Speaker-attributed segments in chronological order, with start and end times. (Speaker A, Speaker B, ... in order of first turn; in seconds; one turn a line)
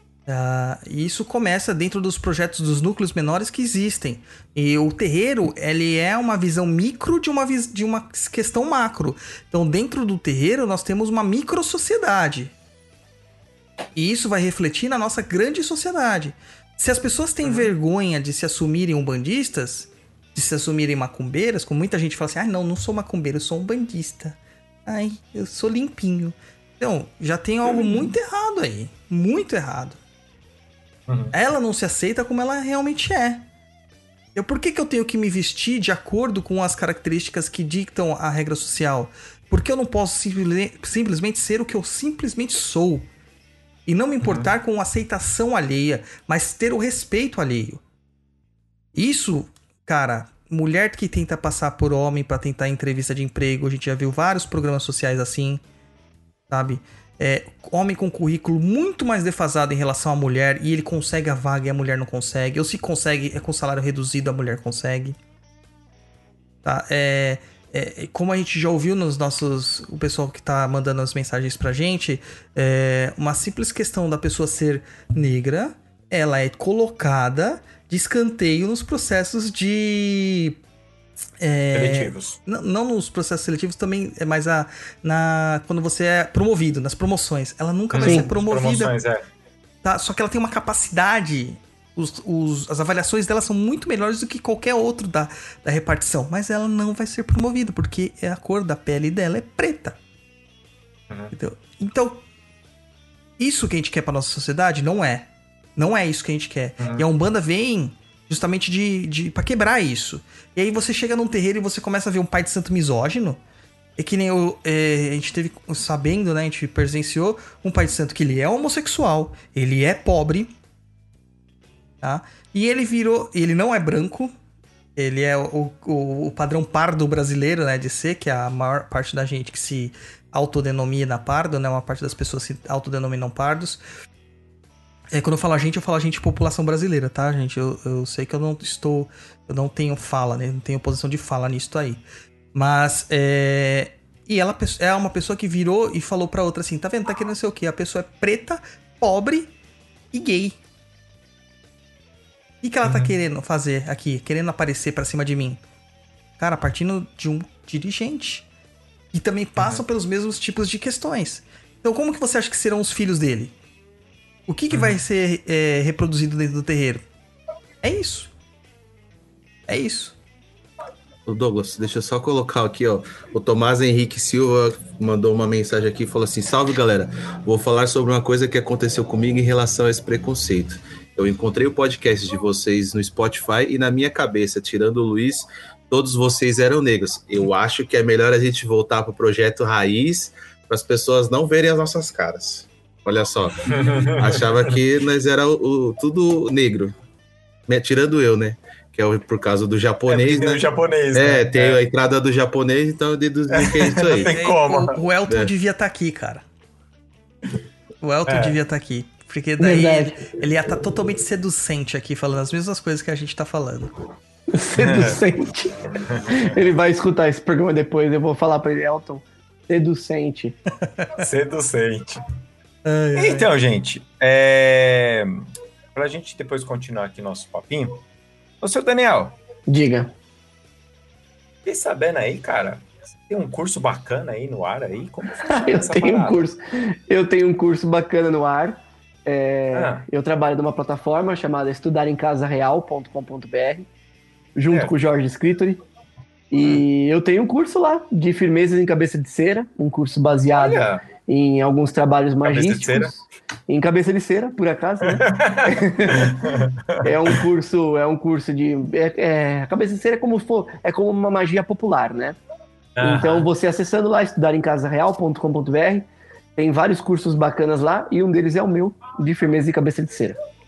Speaker A: 0.3-12.5
Speaker A: 13.9-30.0
Speaker B: 17.4-17.7
Speaker B: 27.7-28.1
Speaker B: 31.1-31.3
Speaker A: 31.3-33.5
Speaker A: 34.3-43.1
Speaker A: 43.9-47.8
Speaker B: 44.2-44.5
Speaker A: 48.9-55.6
Speaker A: 56.5-65.2
Speaker A: 66.6-80.6
Speaker A: 81.4-88.9
Speaker B: 81.7-82.4
Speaker B: 87.9-89.2
Speaker C: 88.0-88.3
Speaker A: 89.8-100.0
Speaker A: 101.3-102.2
Speaker A: 103.4-113.4
Speaker B: 106.8-107.0
Speaker A: 114.0-120.5
Speaker A: 122.0-124.3
Speaker A: 125.0-133.8
Speaker A: 135.1-142.0
Speaker A: 142.5-149.5
Speaker A: 150.1-150.5
Speaker A: 152.6-155.6
Speaker B: 152.8-153.1
Speaker A: 156.4-158.5
Speaker A: 159.1-163.5
Speaker A: 164.5-167.0
Speaker B: 164.7-165.0
Speaker A: 167.8-168.3
Speaker A: 169.7-170.2
Speaker D: 171.2-196.9
Speaker B: 193.7-194.7
Speaker D: 197.7-204.3
Speaker B: 200.1-201.8
Speaker B: 203.5-205.0
Speaker A: 204.2-206.4
Speaker A: 208.0-213.9
Speaker B: 208.3-208.6
Speaker C: 209.6-210.2
Speaker C: 214.5-220.6
Speaker B: 214.8-215.2
Speaker A: 220.8-221.1
Speaker B: 221.2-222.2
Speaker A: 222.8-223.5
Speaker B: 223.2-225.4
Speaker B: 225.9-228.0
Speaker B: 228.6-229.4
Speaker C: 229.7-230.1
Speaker B: 231.6-236.4
Speaker C: 235.5-243.9
Speaker B: 239.7-240.0
Speaker C: 244.5-245.8
Speaker C: 246.5-256.4
Speaker B: 246.6-246.8
Speaker B: 250.6-251.0
Speaker B: 252.4-253.1
Speaker B: 255.1-257.4
Speaker C: 257.0-262.4
Speaker B: 263.0-263.5
Speaker C: 263.0-270.4